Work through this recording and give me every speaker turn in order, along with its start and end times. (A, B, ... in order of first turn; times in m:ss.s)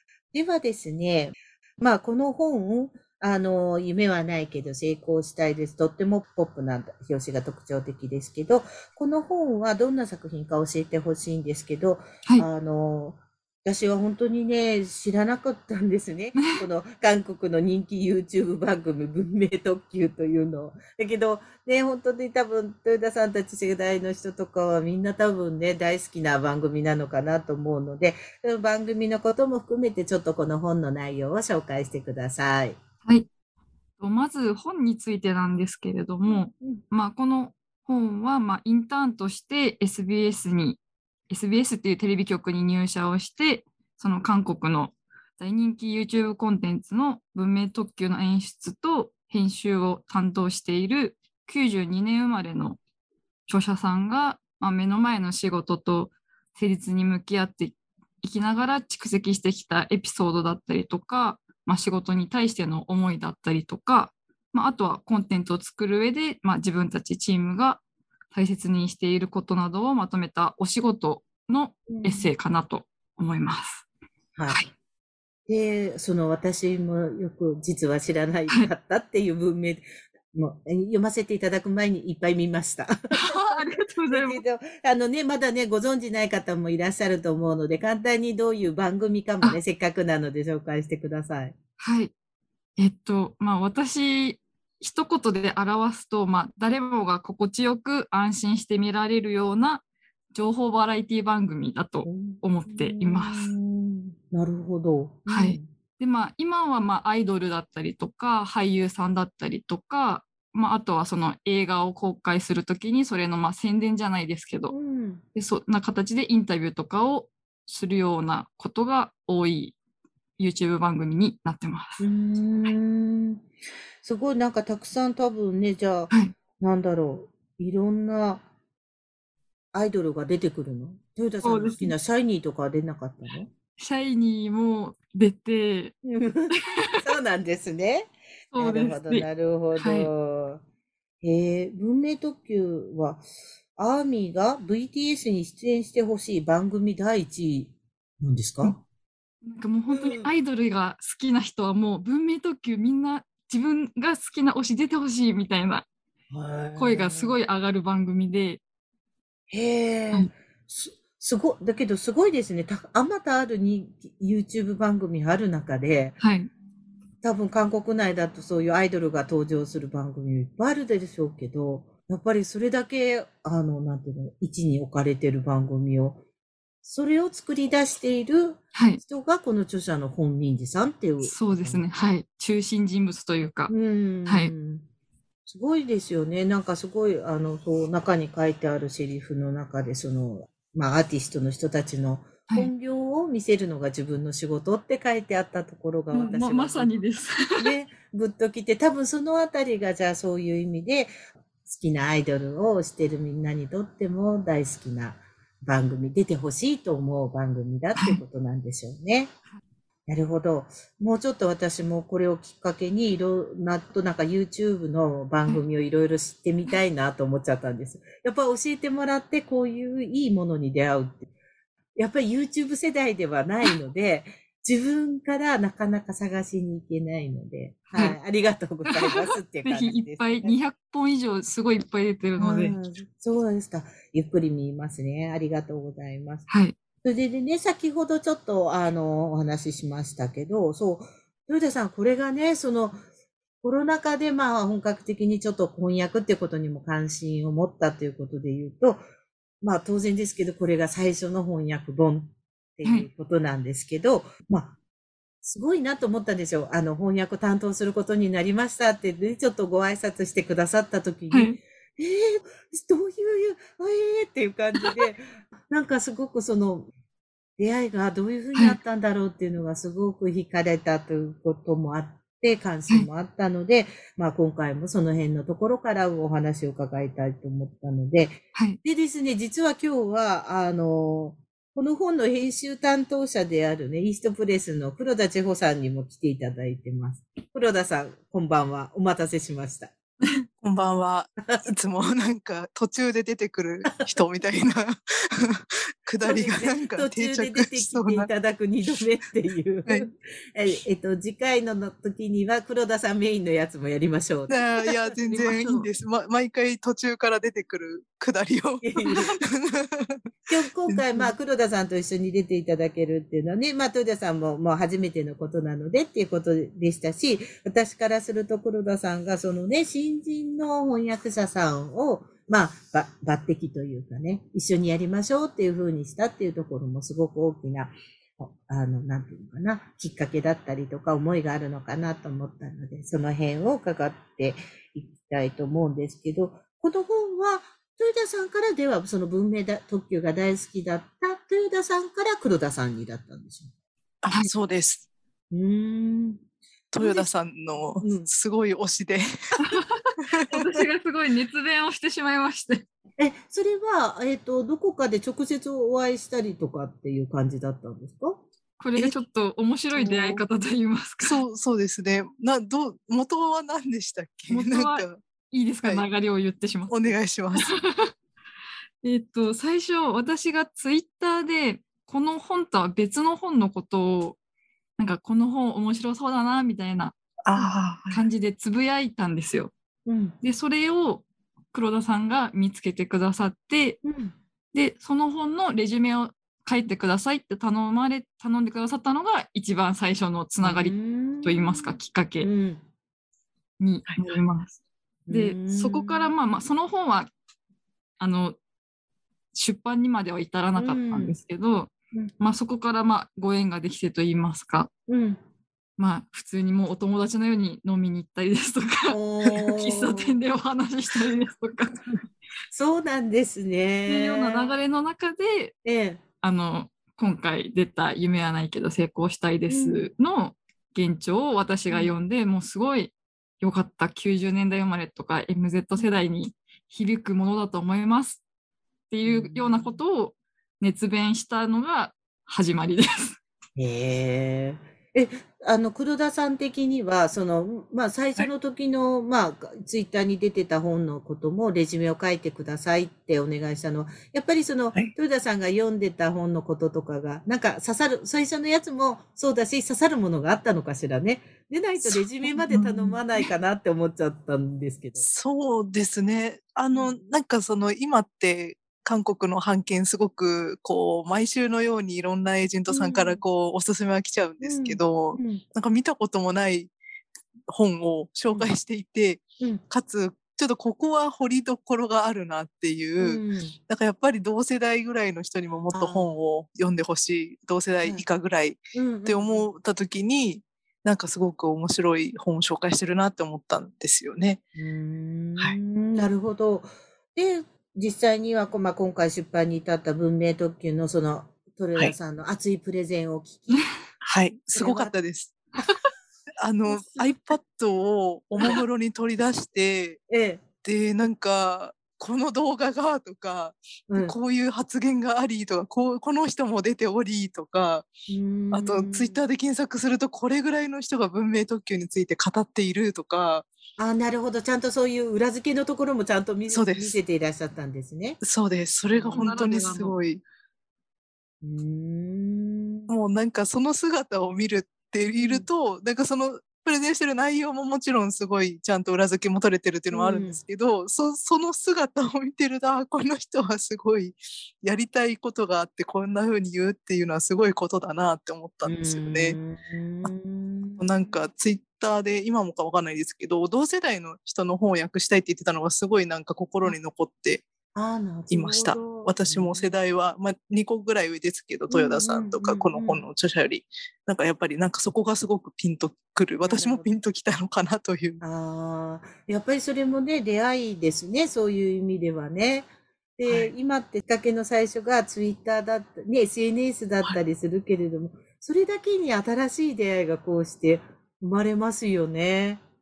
0:00.3-0:32.8 A
0:16.4-0:16.6 B
0:34.0-0:52.8 B
0:36.3-0:36.8 A
0:53.5-1:07.8 B
1:08.3-1:13.8 B
1:11.9-1:12.3 A
1:14.4-1:14.6 A
1:15.5-1:31.6 A
1:23.1-1:24.4 B
1:31.8-1:32.1 B
1:32.8-1:43.5 B
1:42.1-1:45.7 A
1:45.3-1:54.8 B
1:54.7-1:55.2 A
1:55.3-1:59.8 B
2:00.4-2:02.0 B
2:02.0-2:03.5 A
2:04.0-2:08.4 A
2:09.7-2:13.5 A
2:11.4-2:11.9 B
2:13.8-2:16.0 B
2:16.0-2:20.6 A
2:16.6-2:16.9 B
2:18.5-2:20.1 B
2:21.2-2:28.8 A
2:29.4-2:35.9 B
2:29.9-2:30.3 A
2:36.3-2:37.4 A
2:36.8-2:38.6 B
2:39.5-2:46.2 A
2:46.2-2:46.5 B
2:47.2-2:56.2 A
2:56.8-3:01.8 A
2:58.8-2:59.0 B
3:01.2-3:03.7 B
3:03.7-3:04.8 A
3:04.3-3:04.5 B
3:05.5-3:16.9 A
3:16.1-3:17.7 B
3:17.6-3:21.1 A
3:21.6-3:29.3 A
3:30.1-3:41.3 A
3:42.0-3:50.5 A
3:48.9-3:52.8 B
3:52.4-3:56.5 A
3:56.5-3:56.8 B
3:57.0-4:03.0 A
4:03.6-4:09.0 A
4:09.6-4:14.8 A
4:15.4-4:26.9 A
4:21.3-4:21.6 B
4:27.6-4:49.9 A
4:38.6-4:38.8 B
4:50.6-4:58.3 C
4:56.2-5:05.2 A
5:04.5-5:10.2 C
5:05.3-5:05.9 B
5:08.8-5:09.3 A
5:09.0-5:09.4 B
5:10.5-5:43.7 A
5:10.9-5:11.3 C
5:44.2-5:45.0 C
5:45.5-5:46.4 A
5:46.9-5:49.6 C
5:47.0-5:47.3 A
5:48.0-5:48.3 A
5:49.6-5:52.8 B
5:50.2-5:50.4 C
5:53.2-5:58.5 A
5:58.8-6:01.4 B
6:00.0-6:00.4 C
6:01.2-6:05.2 C
6:04.5-6:08.1 B
6:06.9-6:07.8 C
6:09.0-6:14.4 B
6:15.0-6:17.2 B
6:17.4-6:18.2 C
6:18.1-6:19.7 B
6:20.1-6:20.4 A
6:20.4-6:24.0 B
6:24.0-6:24.4 A
6:24.7-6:32.5 B
6:30.6-6:32.8 A
6:33.8-6:34.8 B
6:35.3-6:36.3 A
6:35.3-6:37.3 B
6:38.2-6:38.6 B
6:39.5-6:44.9 B
6:40.8-6:41.4 A
6:45.1-6:45.4 A
6:46.0-6:52.0 B
6:49.1-6:50.4 A
6:52.7-6:54.8 A
6:54.1-6:55.8 B
6:55.8-6:56.2 A
6:56.4-7:08.4 B
6:59.7-7:00.1 A
7:09.1-7:13.4 B
7:09.2-7:10.0 A
7:13.8-7:35.3 A
7:32.0-7:33.2 C
7:35.2-7:46.9 C
7:42.9-7:43.4 A
7:44.6-7:45.6 A
7:47.7-8:04.6 C
7:53.2-7:53.8 A
7:55.9-7:56.3 A
7:58.9-7:59.6 A
8:04.8-8:13.9 A
8:14.2-8:15.6 C
8:14.8-8:15.1 A
8:16.6-8:20.2 C
8:16.9-8:17.4 A
8:20.3-8:20.6 A
8:20.8-8:28.1 C
8:24.1-8:24.4 A
8:28.3-8:29.4 A
8:28.7-8:33.7 C
8:34.0-8:38.4 A
8:36.7-8:37.2 C
8:38.4-8:40.4 C
8:39.1-8:39.7 A
8:39.3-8:40.2 B
8:41.6-8:43.1 A
8:43.1-8:59.6 C
8:45.4-8:45.7 A
8:50.1-8:50.6 A
8:58.9-9:01.4 A
9:01.0-9:07.6 C
9:08.0-9:09.9 A
9:08.5-9:18.4 C
9:11.9-9:13.2 A
9:16.6-9:17.1 A
9:18.4-9:32.8 A
9:23.5-9:23.7 C